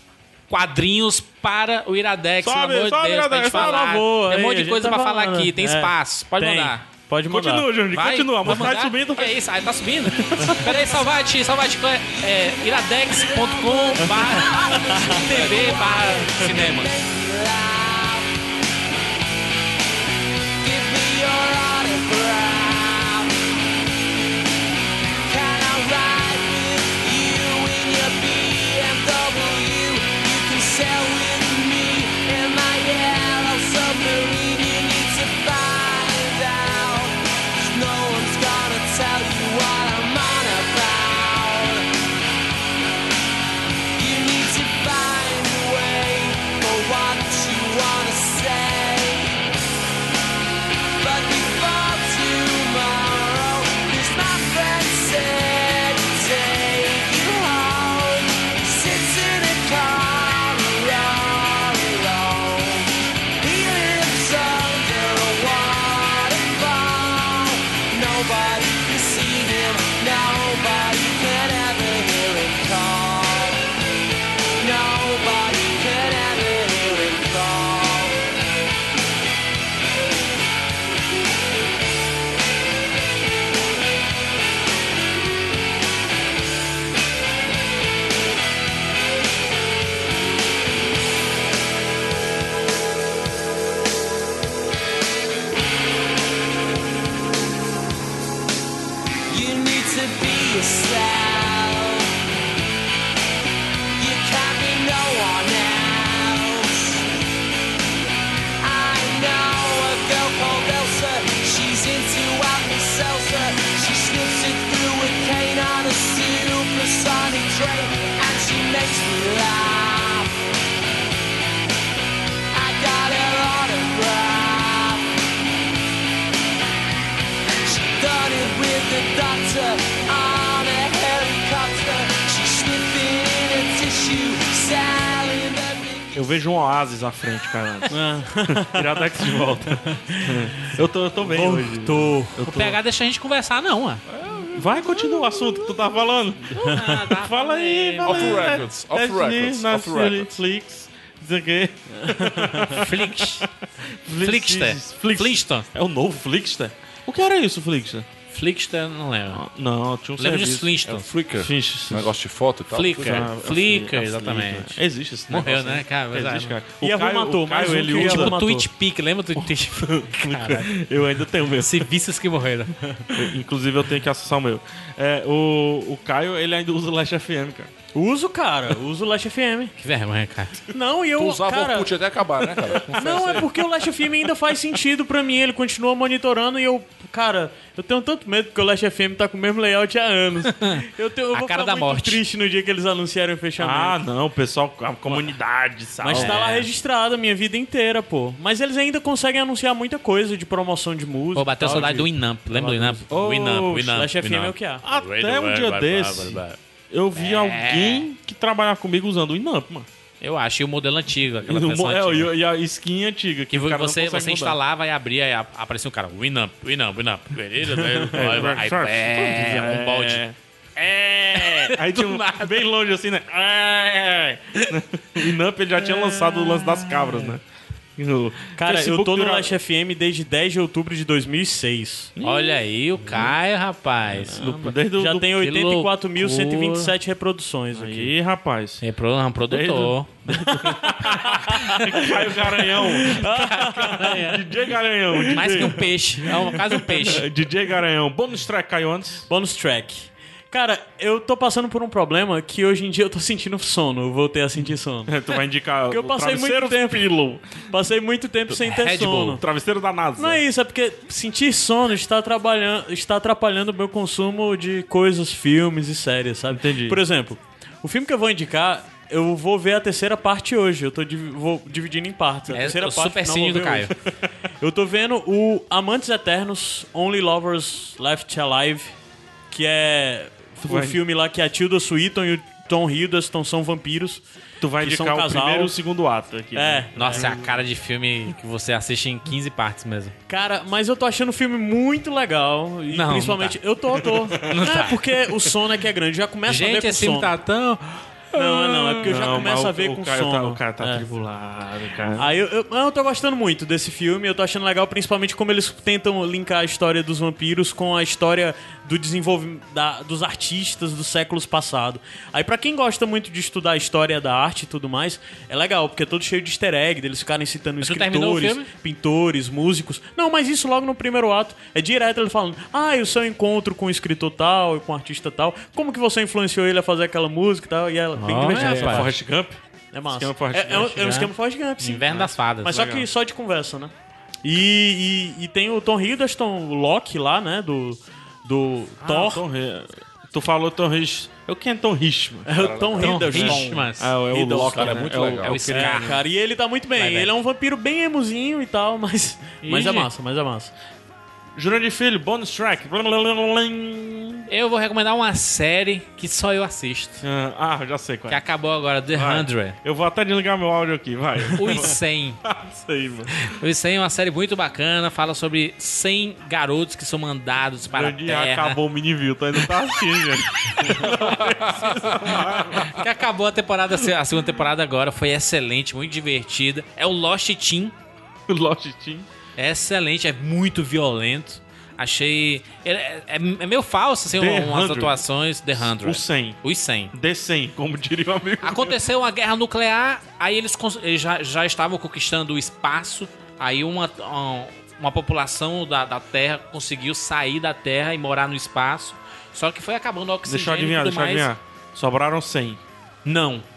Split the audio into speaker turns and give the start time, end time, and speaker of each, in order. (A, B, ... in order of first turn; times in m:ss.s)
0:00.5-0:06.8 A
0:02.4-0:04.0 B
0:03.5-0:07.7 C
0:07.3-0:09.4 B
0:07.9-0:17.0 A
0:10.1-0:10.7 B
0:10.7-0:11.2 D
0:12.0-0:18.3 D
0:20.6-0:23.4 D
0:25.2-0:41.9 D
0:44.0-0:49.4 D
0:51.0-1:13.6 D
1:14.6-1:18.3 D
1:39.3-1:42.1 D
1:44.0-1:47.1 D
1:48.6-2:00.4 D
2:02.5-2:05.1 D
2:07.6-2:16.3 D
2:16.1-2:22.8 B
2:17.9-2:22.5 C
2:22.4-2:24.0 A
2:24.1-2:25.9 E
2:24.5-2:38.1 B
2:26.5-2:28.6 A
2:26.6-2:26.9 C
2:28.0-2:30.3 E
2:32.0-2:32.8 C
2:32.7-2:33.5 A
2:34.2-2:35.7 A
2:38.3-2:39.4 A
2:39.3-2:40.8 B
2:40.2-2:41.1 A
2:40.8-2:43.3 E
2:41.4-2:42.1 B
2:42.7-2:46.6 A
2:43.0-2:48.3 B
2:46.8-2:48.7 C
2:47.9-2:50.7 A
2:49.4-2:51.9 B
2:51.6-2:53.0 A
2:53.1-2:57.7 B
2:57.9-2:59.7 C
2:59.8-3:00.6 A
3:00.7-3:14.0 C
3:01.1-3:03.6 E
3:10.4-3:12.2 A
3:13.6-3:16.7 B
3:16.0-3:23.0 C
3:16.1-3:16.6 A
3:21.3-3:26.6 A
3:23.1-3:24.0 B
3:23.9-3:24.8 C
3:24.8-3:29.9 B
3:27.2-3:28.1 A
3:30.2-3:32.3 A
3:31.4-3:34.6 B
3:33.5-3:40.2 A
3:38.0-3:40.4 B
3:40.8-3:42.6 A
3:41.3-3:47.4 B
3:48.0-3:49.6 B
3:48.6-3:52.1 C
3:52.1-3:53.4 B
3:52.2-3:54.4 A
3:54.2-3:55.4 B
3:54.3-3:58.1 C
3:55.4-3:56.9 A
3:57.7-3:58.8 B
3:58.8-4:00.2 A
3:59.5-4:09.3 B
4:00.3-4:04.2 C
4:01.5-4:01.8 A
4:03.1-4:04.5 A
4:05.3-4:07.2 A
4:05.4-4:07.1 C
4:09.3-4:15.2 C
4:15.1-4:17.6 B
4:15.9-4:19.4 C
4:18.6-4:19.3 A
4:19.0-4:20.4 B
4:20.2-4:33.9 C
4:26.5-4:27.0 B
4:32.5-4:33.9 A
4:34.6-4:38.9 C
4:39.5-4:44.2 C
4:40.6-4:41.0 B
4:44.6-4:47.5 B
4:44.8-4:45.8 C
4:46.5-4:47.4 C
4:47.0-4:50.2 A
4:50.3-4:57.3 C
4:52.9-4:53.6 A
4:54.3-4:55.3 B
4:54.4-4:54.9 A
4:56.5-4:58.4 A
4:58.3-5:01.0 C
4:59.0-5:02.3 B
5:02.2-5:29.1 C
5:17.8-5:18.7 A
5:28.2-5:29.1 A
5:28.3-5:29.6 B
5:29.9-5:33.9 C
5:30.1-5:31.3 B
5:30.9-5:33.0 A
5:32.7-5:33.0 B
5:34.4-5:39.4 C
5:39.0-5:42.5 B
5:42.4-5:45.0 C
5:42.5-5:43.6 E
5:43.0-5:44.1 A
5:43.2-5:46.2 B
5:44.7-5:45.6 E
5:45.4-5:46.2 A
5:45.7-5:50.7 C
5:47.0-5:47.3 A
5:49.6-5:50.1 A
5:51.5-5:54.5 B
5:54.5-5:57.2 A
5:57.2-5:58.4 B
5:58.3-5:59.8 A
5:59.1-6:03.5 B
6:01.5-6:02.4 A
6:03.3-6:08.8 A
6:07.9-6:13.0 B
6:09.6-6:17.9 A
6:18.5-6:19.3 B
6:19.6-6:27.1 A
6:24.3-6:25.2 B
6:25.8-6:26.6 B
6:27.1-6:29.0 B
6:28.6-6:41.5 A
6:40.4-6:42.8 B
6:43.2-6:43.6 A